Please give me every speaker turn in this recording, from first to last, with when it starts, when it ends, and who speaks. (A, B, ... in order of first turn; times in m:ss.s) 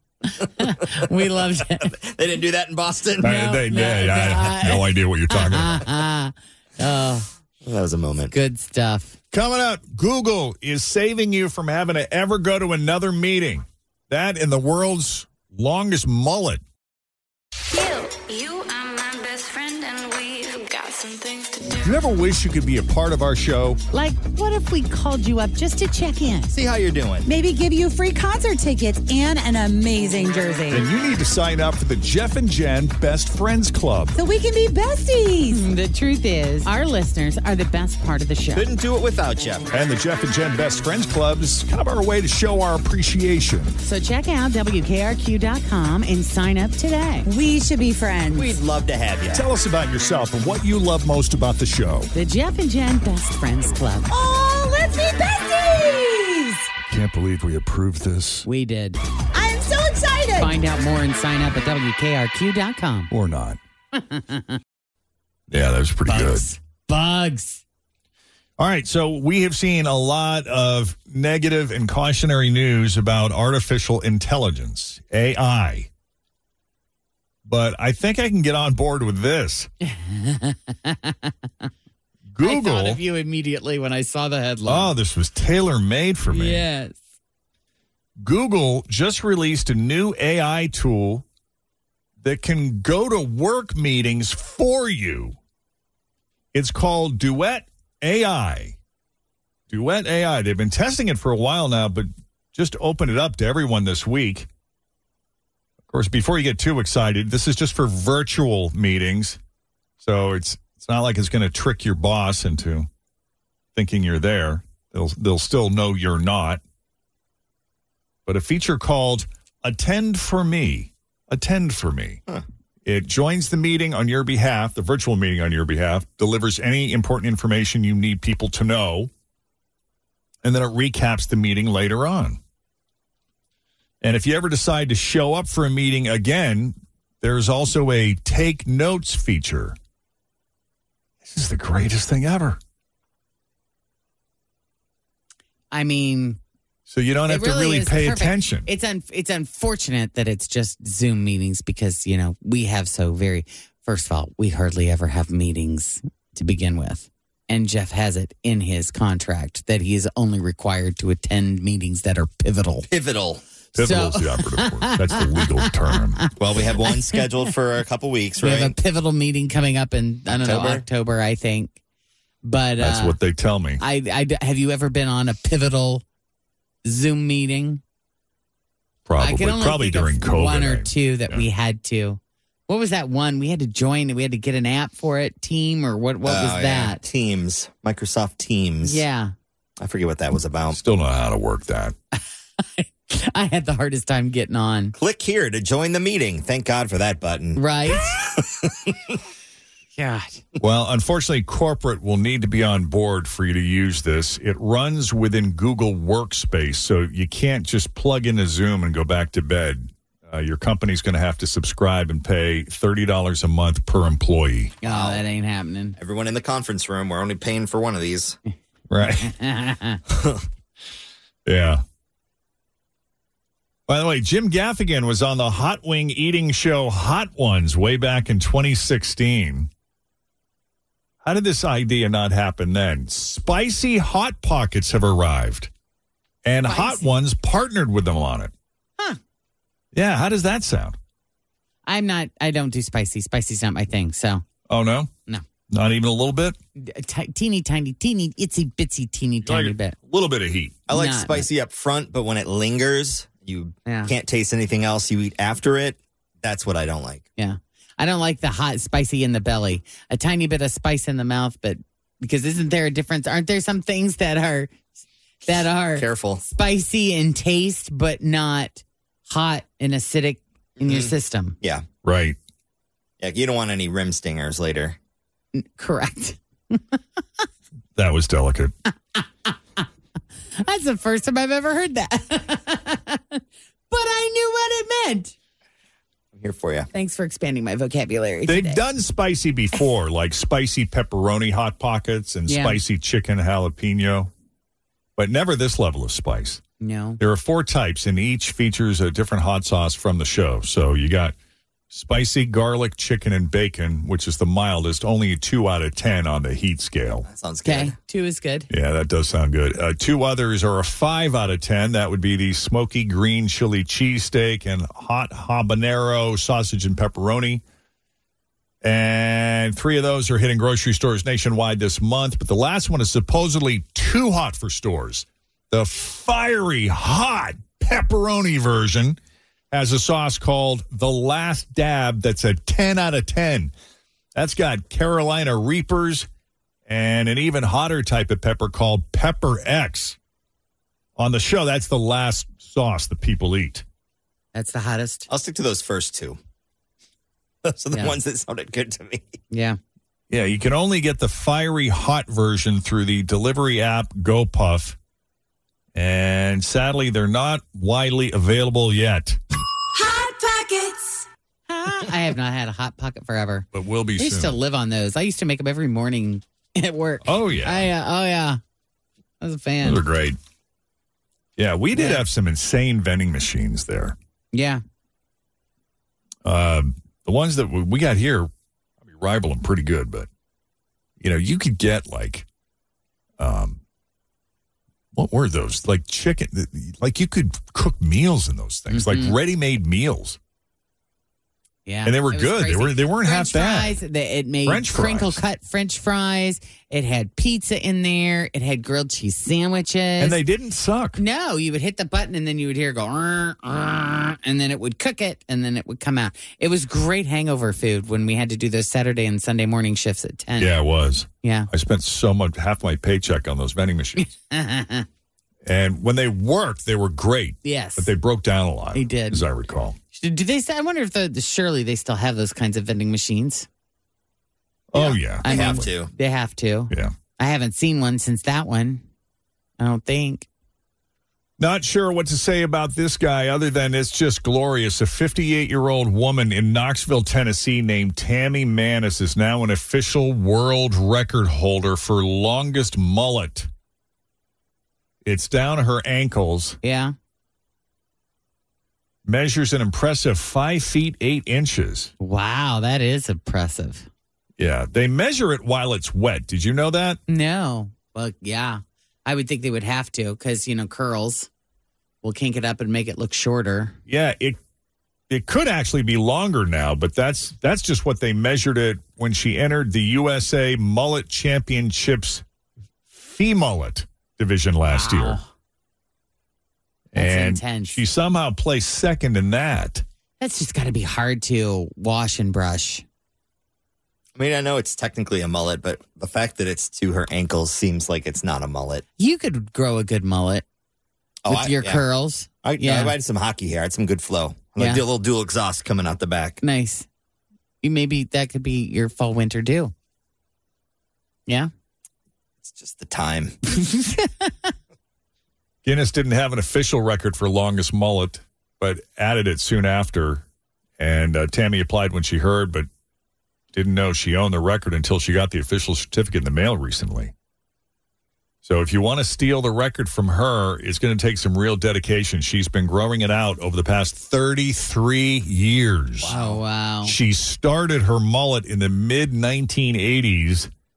0:00.2-0:01.9 A
0:01.8-0:03.4 B
0:03.2-0:05.9 C
0:03.2-0:07.3 A
0:07.6-0:08.3 B
0:08.3-0:09.2 A
0:09.3-0:16.6 C
0:17.7-0:21.9 D
0:21.8-0:23.8 C
0:23.9-0:26.5 A
0:26.5-0:27.3 B
0:27.2-0:30.8 E
0:30.7-0:34.2 C
0:34.1-0:35.6 E
0:35.5-0:38.6 A
0:38.5-0:39.7 B
0:39.7-0:43.8 C
0:43.8-0:47.3 A
0:47.2-0:48.6 E
0:48.3-0:49.4 B
0:49.3-0:52.1 C
0:52.1-0:54.0 A
0:54.1-0:56.7 E
0:56.8-0:58.4 C
0:58.4-0:59.0 A
0:59.3-1:00.5 E
1:00.4-1:03.1 A
1:03.1-1:03.6 C
1:03.9-1:04.6 A
1:05.5-1:06.5 C
1:06.1-1:07.6 A
1:08.6-1:15.9 C
1:17.4-1:19.7 C
1:19.8-1:21.7 A
1:22.3-1:23.0 C
1:22.4-1:25.0 A
1:24.6-1:26.6 C
1:26.3-1:27.0 A
1:28.2-1:31.2 C
1:32.2-1:35.4 C
1:36.5-1:38.8 C
1:39.7-1:44.5 C
1:45.9-1:49.4 C
1:50.0-1:52.9 C
1:53.7-1:56.6 C
1:58.2-2:02.2 C
2:02.8-2:09.1 C
2:10.4-2:12.4 C
2:14.0-2:19.8 C
2:21.2-2:22.6 C
2:25.7-2:26.4 A
2:26.9-2:28.7 C
2:27.3-2:42.8 A
2:42.9-2:43.4 B
2:43.7-2:46.2 C
2:43.8-2:46.3 A
2:46.4-2:48.7 B
2:46.9-2:47.2 A
2:48.4-2:51.7 A
2:50.3-2:50.8 B
2:52.4-2:53.2 A
2:52.8-2:53.8 C
2:53.8-2:56.0 A
2:56.8-2:57.8 A
2:59.0-3:01.4 C
2:59.2-3:07.0 A
3:06.2-3:09.0 B
3:08.8-3:09.3 A
3:09.8-3:10.8 B
3:10.7-3:11.9 C
3:12.1-3:14.9 A
3:15.0-3:19.2 B
3:17.6-3:18.2 A
3:20.0-3:20.4 A
3:20.6-3:34.8 C
3:34.8-3:36.0 A
3:34.8-3:35.2 B
3:36.0-3:38.4 B
3:38.9-3:39.3 C
3:39.2-3:40.0 A
3:41.4-3:41.8 C
3:43.9-3:49.7 C
3:51.2-3:55.7 C
3:56.4-3:58.5 C
3:56.6-3:57.1 A
3:59.9-4:01.0 C
4:01.8-4:04.4 A
4:04.7-4:05.1 C
4:05.7-4:06.6 C
4:06.8-4:10.0 A
4:09.4-4:10.8 C
4:10.9-4:17.3 B
4:10.9-4:11.4 A
4:13.8-4:14.1 A
4:17.4-4:24.8 A
4:25.4-4:31.6 A
4:25.9-4:26.4 B
4:30.8-4:31.8 B
4:32.0-4:32.4 C
4:33.2-4:35.0 B
4:35.5-4:37.0 A
4:37.9-4:38.7 C
4:39.2-4:39.8 A
4:40.6-4:45.3 A
4:46.3-4:46.9 B
4:46.9-4:48.8 A
4:48.4-4:54.3 C
4:52.5-4:52.8 A
4:55.2-4:56.6 C
4:56.8-4:57.2 A
4:57.2-5:01.3 C
5:01.9-5:07.2 C
5:07.2-5:08.0 B
5:07.6-5:08.7 A
5:08.7-5:17.6 C
5:18.8-5:29.2 C
5:29.7-5:33.7 C
5:34.3-5:36.3 C
5:36.9-5:40.2 C
5:41.2-5:43.8 C
5:44.5-5:45.3 A
5:45.3-5:46.4 B
5:47.6-5:49.4 B
5:49.5-5:49.8 A
5:50.3-5:55.0 C
5:55.9-5:59.4 C
6:00.0-6:01.2 E
6:01.7-6:08.6 A
6:03.7-6:04.6 C
6:07.2-6:07.9 C
6:09.4-6:10.0 A
6:09.8-6:10.4 C
6:11.6-6:14.2 C
6:11.9-6:12.2 A
6:14.5-6:14.8 A
6:16.4-6:18.5 C
6:19.0-6:20.3 C
6:21.2-6:22.4 C
6:23.4-6:23.8 C
6:25.1-6:30.4 C
6:28.9-6:29.3 A
6:31.8-6:40.4 A
6:32.0-6:34.0 C
6:34.6-6:35.4 C
6:40.2-6:41.2 C
6:41.2-6:50.8 A
6:50.6-6:54.3 C
6:51.4-6:51.7 A
6:54.2-6:55.1 A
6:55.6-7:00.0 C
6:57.6-6:58.1 A
6:58.9-6:59.4 A
7:00.1-7:03.7 A
7:04.9-7:05.7 C
7:05.0-7:09.0 A
7:05.4-7:06.1 B
7:09.8-7:10.5 A
7:11.6-7:23.7 C
7:25.2-7:26.8 C
7:26.8-7:27.1 A
7:29.2-7:32.1 C
7:32.2-7:34.1 A
7:34.6-7:37.2 C
7:37.3-7:41.5 A
7:42.2-7:44.0 A
7:44.1-7:44.6 C
7:45.3-7:52.4 C
7:53.1-7:55.4 C
7:54.9-7:55.5 A
7:57.1-8:00.0 C
7:57.2-7:58.0 A
8:00.4-8:03.0 A
8:04.4-8:09.0 B
8:09.2-8:10.6 A
8:11.4-8:12.0 B
8:11.5-8:13.1 A
8:12.6-8:16.6 B
8:16.6-8:17.1 A
8:17.8-8:19.9 A
8:22.6-8:23.5 B
8:23.7-8:24.7 A
8:25.8-8:30.4 C
8:31.0-8:32.9 C
8:33.7-8:37.3 C
8:38.6-8:46.3 C
8:46.2-8:46.6 B
8:46.2-8:47.2 A
8:47.0-8:50.7 C